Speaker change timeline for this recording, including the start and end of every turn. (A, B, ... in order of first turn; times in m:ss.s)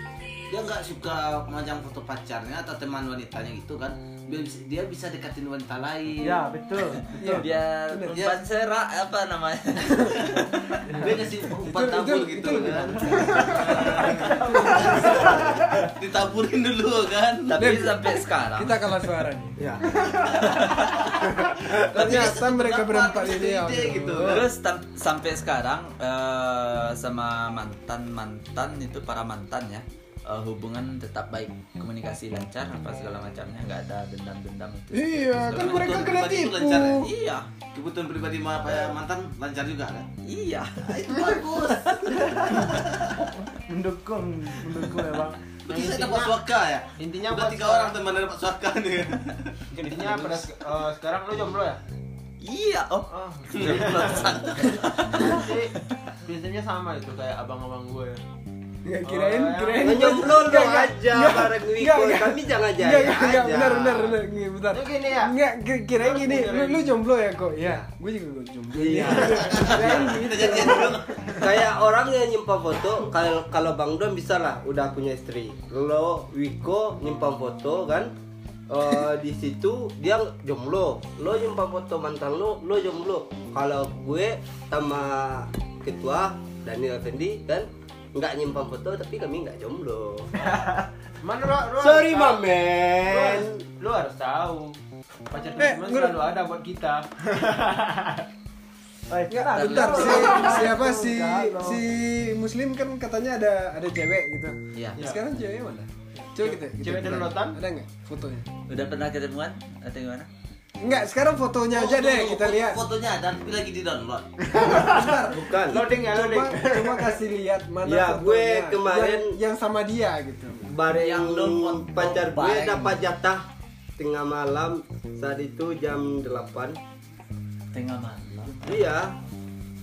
0:00.5-0:06.4 A
0:06.2-0:07.5 B
0:07.2-0:08.2 C
0:07.3-0:11.0 D
0:08.1-0:08.4 A
0:09.9-0:10.2 C
0:10.9-0:17.7 A
0:11.6-0:15.6 C
0:14.6-0:15.0 B
0:17.5-0:19.0 D
0:17.6-0:24.5 C
0:20.3-0:20.5 A
0:20.4-0:21.1 D
0:21.7-0:24.5 A
0:24.2-0:36.2 D
0:34.9-0:37.1 C
0:35.5-0:37.1 A
0:36.9-0:37.5 D
0:37.7-0:40.1 A
0:38.7-0:39.0 C
0:40.2-0:42.6 D
0:40.9-0:43.3 A
0:43.7-0:45.4 B
0:45.7-0:49.6 A
0:45.7-0:46.4 E
0:47.0-0:48.0 E
0:49.7-0:51.8 E
0:52.4-0:55.9 D
0:53.1-0:54.4 E
0:53.5-0:55.5 A
0:55.1-0:55.7 E
0:56.2-0:58.2 E
0:58.8-1:11.1 C
0:59.0-1:00.5 E
0:59.8-1:04.1 F
1:04.7-1:05.3 E
1:06.0-1:06.9 E
1:08.7-1:09.9 F
1:09.1-1:11.5 A
1:11.4-1:18.1 F
1:18.7-1:30.5 F
1:31.2-1:32.5 E
1:31.8-1:33.6 F
1:33.0-1:34.8 E
1:35.3-1:38.0 E
1:35.6-1:36.2 C
1:39.1-1:41.8 B
1:39.3-1:48.5 C
1:39.4-1:40.5 D
1:44.7-1:45.0 D
1:46.2-1:47.6 E
1:48.7-1:50.3 D
1:50.8-1:52.8 C
1:51.7-1:54.6 A
1:54.5-2:00.7 C
1:54.6-1:55.8 F
1:55.7-1:57.0 E
1:57.8-1:59.4 F
2:00.7-2:03.4 F
2:00.9-2:03.1 D
2:04.0-2:06.8 F
2:07.7-2:08.9 D
2:08.6-2:09.1 F